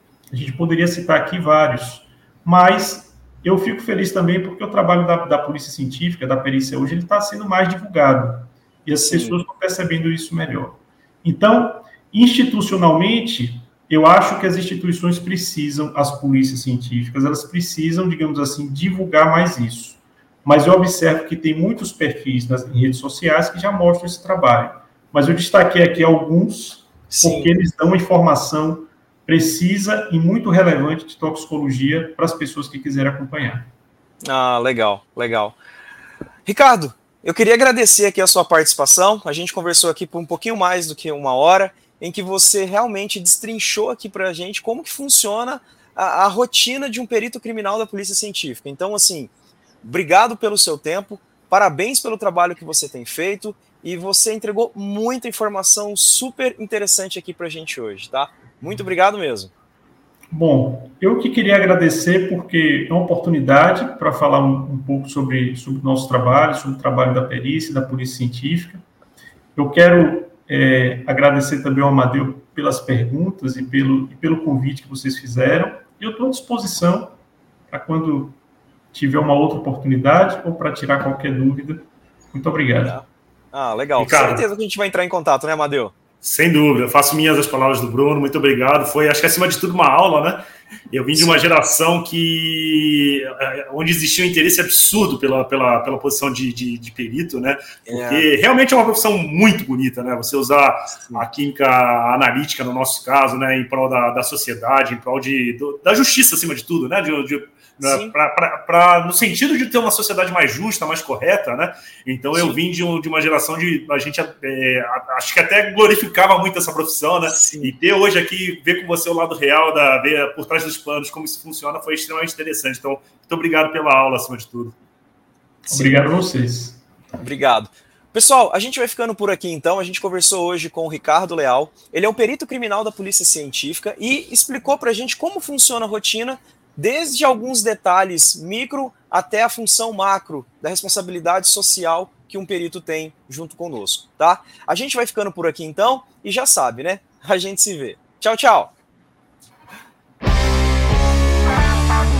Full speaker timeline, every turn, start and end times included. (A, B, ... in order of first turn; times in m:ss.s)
0:00.3-0:33.7 A
0:09.0-0:09.4 B
0:27.1-0:27.5 B
0:34.2-0:35.6 B
0:36.4-0:49.3 B
0:49.8-0:59.5 B
1:00.3-1:08.8 A
1:09.6-1:17.1 A
1:17.7-1:18.4 A
1:18.9-1:23.0 A
1:22.8-1:26.0 B
1:24.0-1:24.5 C
1:26.2-2:04.8 C
1:31.1-1:31.4 B
1:37.9-1:38.3 B
1:40.9-1:41.2 B
1:47.8-1:48.1 B
1:57.3-1:57.7 B
2:05.6-2:06.8 A
2:05.7-2:06.0 B
2:07.2-2:28.7 B